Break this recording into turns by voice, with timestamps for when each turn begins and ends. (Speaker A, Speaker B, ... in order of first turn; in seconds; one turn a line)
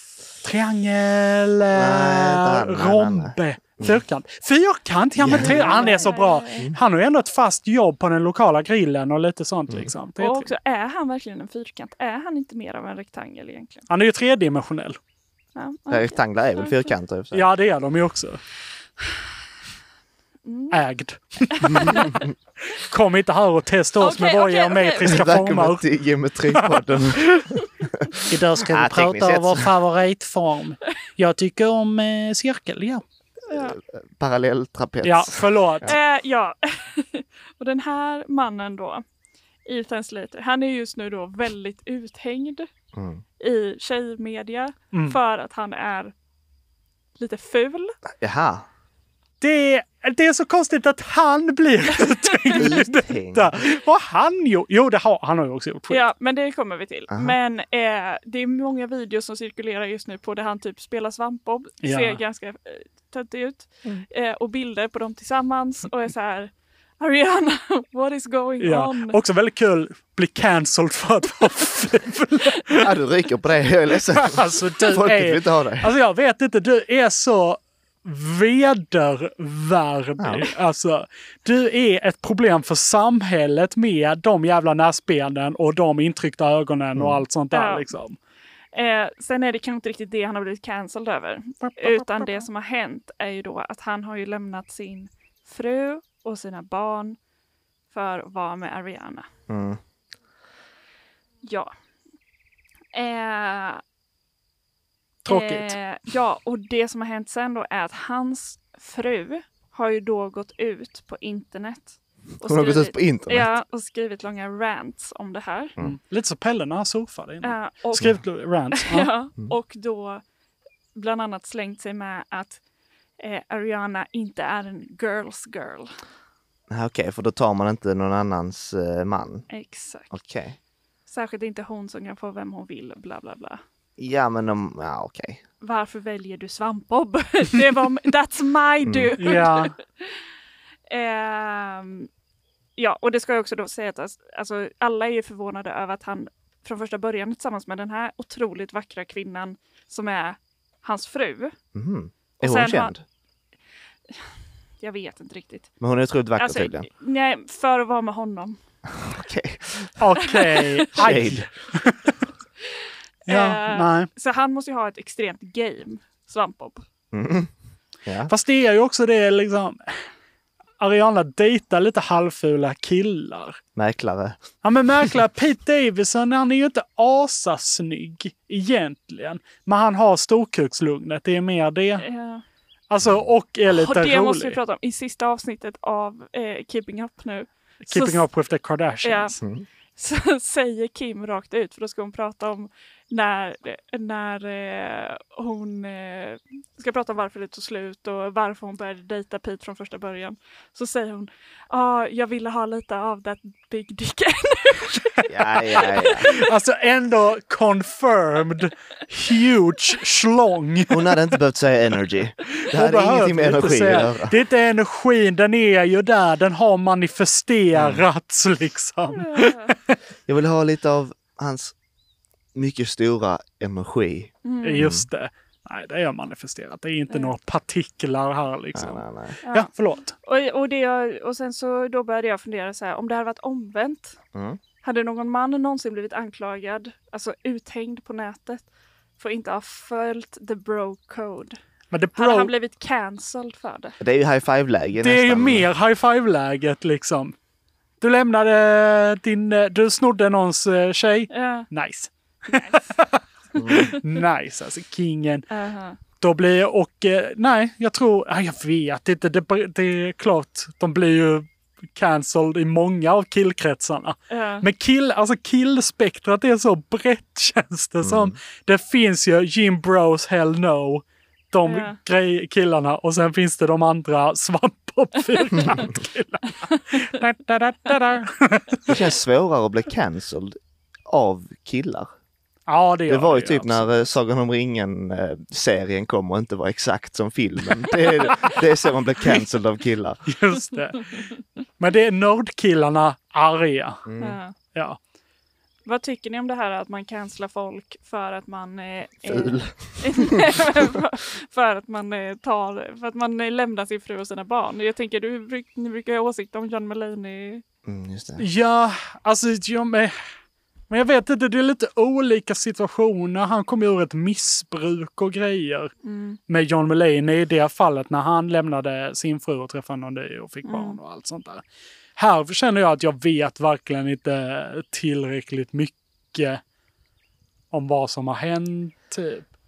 Speaker A: 0.4-10.5
Speaker B: 1.7-4.0
Speaker B: 5.2-5.8
Speaker C: 5.3-6.7
Speaker C: 10.2-13.9
Speaker A: 13.9-15.0
Speaker C: 15.6-16.9
Speaker B: 15.9-17.5
Speaker A: 17.3-18.4
Speaker C: 20.4-20.8
Speaker A: 20.7-21.9
Speaker C: 21.5-22.2
Speaker A: 22.9-25.8
Speaker C: 24.0-25.3
Speaker B: 25.0-27.4
Speaker A: 26.6-27.4
Speaker A: 28.3-33.0
Speaker B: 28.6-29.7
Speaker B: 33.5-36.0
Speaker C: 33.5-33.8
Speaker A: 35.0-35.9
Speaker C: 35.8-39.0
Speaker C: 39.6-42.7
Speaker B: 42.9-43.2
Speaker C: 43.4-46.1
Speaker C: 47.2-47.9
Speaker B: 48.1-48.7
Speaker A: 49.4-56.0
Speaker C: 52.0-52.6
Speaker B: 52.5-53.5
Speaker C: 55.9-69.2
Speaker B: 57.1-57.4
Speaker A: 61.8-62.2
Speaker A: 68.6-72.8
Speaker B: 72.8-75.9
Speaker A: 74.2-88.2
Speaker B: 80.2-80.5
Speaker B: 87.0-87.2
Speaker C: 87.5-87.9
Speaker C: 88.7-97.2
Speaker A: 91.6-92.5
Speaker C: 97.9-99.3
Speaker B: 99.5-99.8
Speaker C: 101.4-101.7
Speaker C: 102.9-103.8
Speaker A: 105.2-105.8
Speaker C: 105.3-115.7
Speaker B: 112.4-113.5
Speaker A: 115.8-119.1
Speaker C: 117.4-118.1
Speaker B: 118.0-118.2
Speaker C: 118.7-120.2
Speaker C: 121.0-122.6
Speaker C: 123.2-126.0
Speaker B: 126.7-129.5
Speaker C: 129.5-130.2
Speaker B: 130.1-130.6
Speaker C: 131.1-133.6
Speaker B: 134.0-135.4
Speaker C: 135.6-140.2
Speaker B: 138.8-139.1
Speaker A: 139.2-139.7
Speaker C: 140.9-142.1
Speaker C: 142.8-151.6
Speaker B: 151.7-153.0
Speaker C: 152.4-152.9
Speaker C: 154.8-155.7
Speaker B: 155.8-156.9
Speaker C: 156.4-158.6
Speaker B: 158.9-159.9
Speaker A: 160.0-162.1
Speaker C: 160.3-161.1
Speaker B: 161.0-161.5
Speaker C: 163.3-166.8
Speaker A: 163.3-164.1
Speaker B: 167.1-167.5
Speaker B: 168.1-168.3
Speaker A: 168.3-169.9
Speaker A: 170.8-173.6
Speaker B: 173.8-174.4
Speaker A: 174.6-182.1
Speaker C: 182.0-182.4
Speaker A: 182.9-184.6
Speaker C: 183.7-188.3
Speaker A: 187.9-189.4
Speaker C: 189.0-189.4
Speaker C: 190.0-206.4
Speaker B: 205.3-206.3
Speaker A: 206.3-211.0
Speaker B: 210.9-214.4
Speaker A: 212.6-219.9
Speaker B: 217.7-218.1
Speaker C: 219.2-219.7
Speaker B: 220.3-221.7
Speaker B: 222.6-225.1
Speaker C: 224.4-224.9
Speaker A: 224.6-230.1
Speaker C: 227.1-227.3
Speaker B: 228.7-229.4
Speaker C: 229.4-234.2
Speaker B: 234.3-234.6
Speaker C: 234.8-238.6
Speaker C: 239.2-241.6
Speaker A: 241.9-242.5
Speaker C: 242.2-244.0
Speaker B: 244.0-245.7
Speaker A: 245.0-247.4
Speaker A: 248.0-255.4
Speaker C: 251.3-251.7
Speaker C: 252.5-252.9
Speaker B: 253.6-253.9
Speaker C: 255.5-256.0
Speaker A: 256.2-278.9
Speaker C: 264.3-264.7
Speaker B: 268.0-268.4
Speaker C: 271.6-272.0
Speaker B: 278.9-282.1
Speaker A: 282.7-284.1
Speaker B: 283.1-290.2
Speaker A: 290.3-291.3
Speaker A: 291.8-294.0
Speaker B: 294.1-294.4
Speaker C: 294.2-294.5
Speaker C: 295.9-307.6
Speaker B: 299.3-300.3
Speaker B: 307.8-308.4
Speaker A: 308.4-310.1
Speaker A: 310.9-315.9
Speaker C: 316.0-316.4
Speaker A: 316.5-321.6
Speaker C: 320.6-321.0
Speaker A: 322.2-326.6
Speaker A: 327.7-329.5